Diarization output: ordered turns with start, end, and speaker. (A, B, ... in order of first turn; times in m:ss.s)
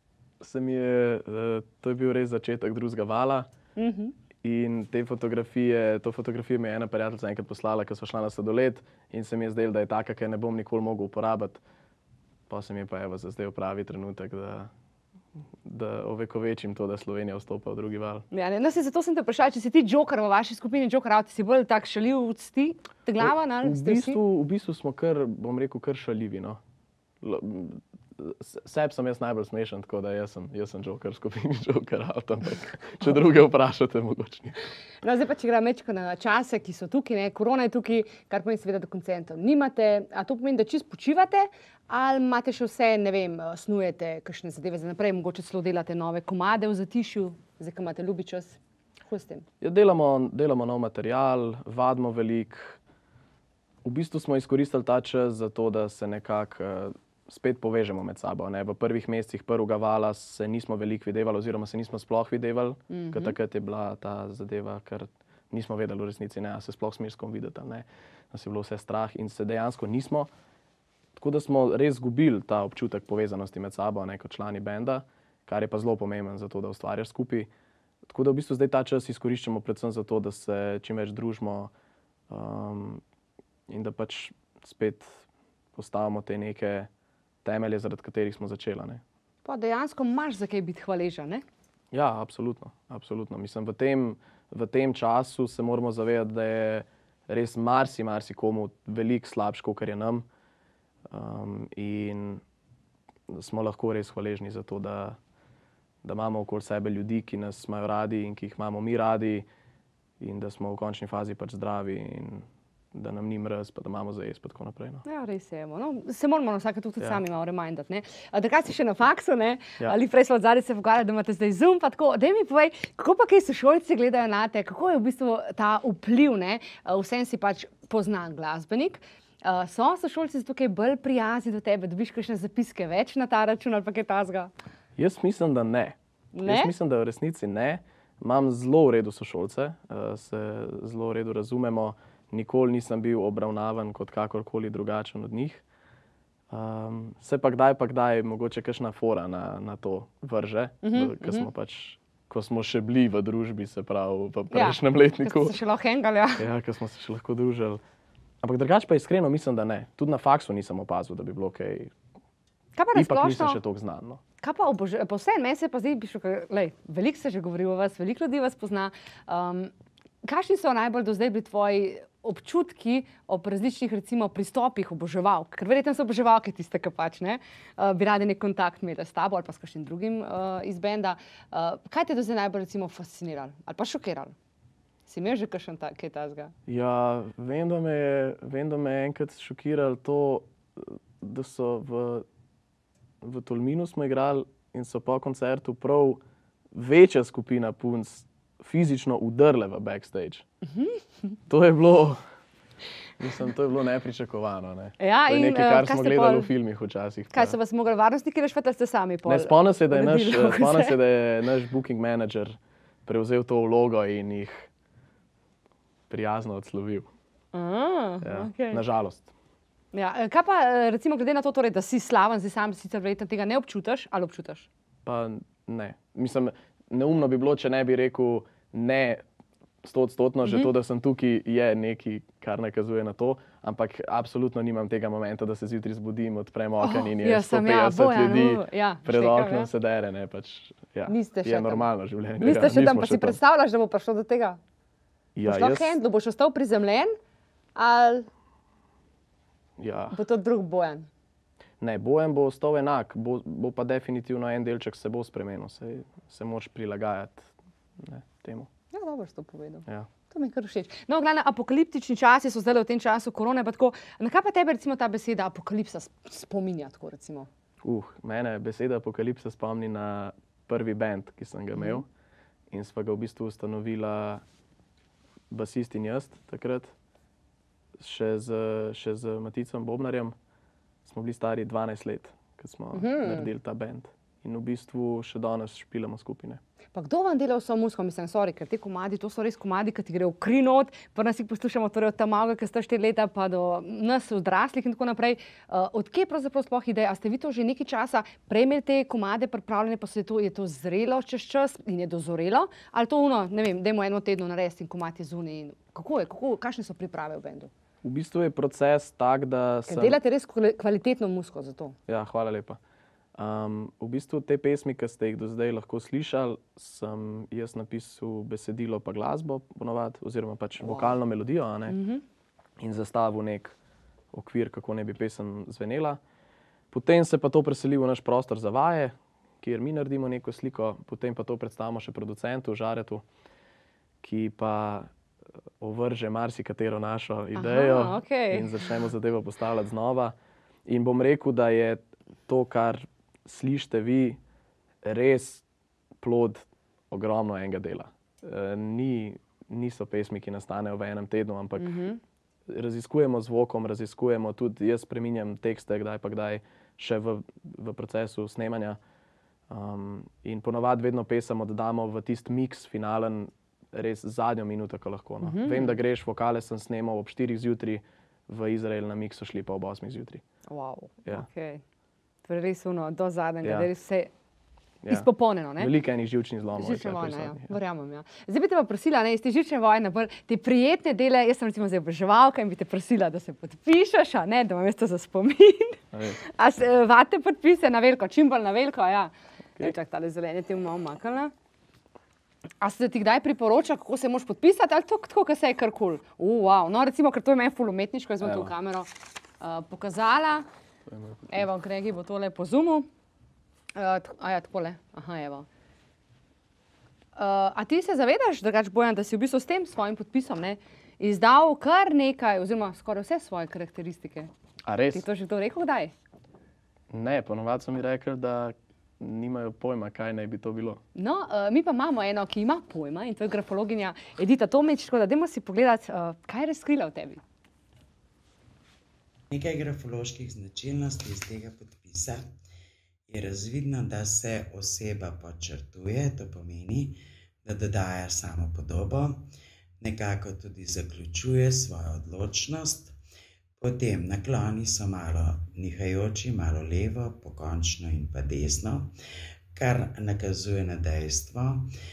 0:00.4-0:03.5 A
0:03.8-0:04.1 B
0:04.4-0:11.6 A
0:12.5-0:14.7 A
0:15.6-0:18.2 A
0:18.3-0:24.2 B
0:23.2-0:26.6 A
0:27.2-0:34.6 A
0:35.0-0:49.4 B
0:49.6-0:52.8 A
0:53.8-1:10.3 A
1:02.9-1:03.4 B
1:11.2-1:17.5 A
1:18.0-1:21.7 A
1:22.3-1:23.0 A
1:23.7-1:26.9 A
1:27.4-1:29.0 A
1:29.4-1:31.4 B
1:31.9-1:40.2 A
1:41.1-1:42.4 A
1:43.3-1:45.2 A
1:46.0-1:49.5 A
1:50.2-1:55.0 A
1:55.0-2:14.5 B
2:15.0-2:25.6 A
2:16.3-2:16.7 B
2:26.5-2:35.6 A
2:30.8-2:31.5 B
2:34.5-2:36.4 B
2:36.4-2:37.8 A
2:38.4-2:41.9 A
2:42.7-2:43.6 B
2:42.9-2:44.2 A
2:44.4-2:49.7 B
2:50.2-3:04.3 B
3:05.1-3:06.5 B
3:06.7-3:12.2 A
3:13.2-3:16.2 A
3:16.7-3:20.4 A
3:20.6-3:21.3 B
3:21.5-3:22.2 A
3:23.2-3:27.6 A
3:25.0-3:26.5 B
3:27.3-3:31.0 B
3:29.2-3:34.7 A
3:36.1-3:37.1 A
3:37.5-3:38.8 B
3:38.2-3:39.3 A
3:39.9-3:44.7 B
3:45.0-3:49.2 A
3:49.8-4:03.4 A
3:50.4-3:50.7 B
3:56.8-3:59.7 B
4:01.0-4:04.6 B
4:05.3-4:06.0 A
4:05.4-4:07.1 B
4:07.7-4:08.3 B
4:09.8-4:10.2 A
4:10.1-4:11.1 B
4:11.8-4:18.7 A
4:18.9-4:27.5 B
4:27.8-4:32.0 A
4:31.7-4:32.0 B
4:32.7-4:34.4 A
4:35.5-4:36.9 A
4:38.0-4:40.3 A
4:41.0-4:46.6 A
4:42.9-4:43.5 B
4:46.9-5:07.7 B
5:08.0-5:10.2 A
5:09.9-5:11.9 B
5:12.1-5:12.8 A
5:13.4-5:22.0 A
5:20.8-5:21.1 B
5:21.9-5:22.2 B
5:22.8-5:23.8 A
5:24.3-5:26.2 A
5:26.9-5:33.2 A
5:34.2-5:35.1 A
5:35.8-5:40.3 A
5:37.6-5:38.7 B
5:40.8-5:44.4 A
5:45.0-5:45.6 A
5:46.2-5:52.0 A
5:51.8-5:52.2 B
5:52.7-5:59.0 A
5:59.7-6:10.4 A
6:05.4-6:06.0 B
6:10.7-6:11.8 B
6:12.4-6:14.3 B
6:13.6-6:13.9 A
6:15.0-6:17.8 A
6:15.1-6:15.9 B
6:16.7-6:31.5 B
6:26.1-6:26.4 A
6:32.8-6:40.6 B
6:38.4-6:38.7 A
6:41.1-6:41.6 A
6:41.5-6:43.0 B
6:43.9-6:45.6 B
6:47.4-6:54.5 B
6:54.8-6:55.2 A
6:55.1-6:56.1 B
6:57.1-7:01.0 A
7:01.1-7:07.4 B
7:09.5-7:12.4 C
7:13.3-7:19.4 C
7:20.0-7:23.2 C
7:23.8-7:29.1 C
7:29.8-7:31.9 C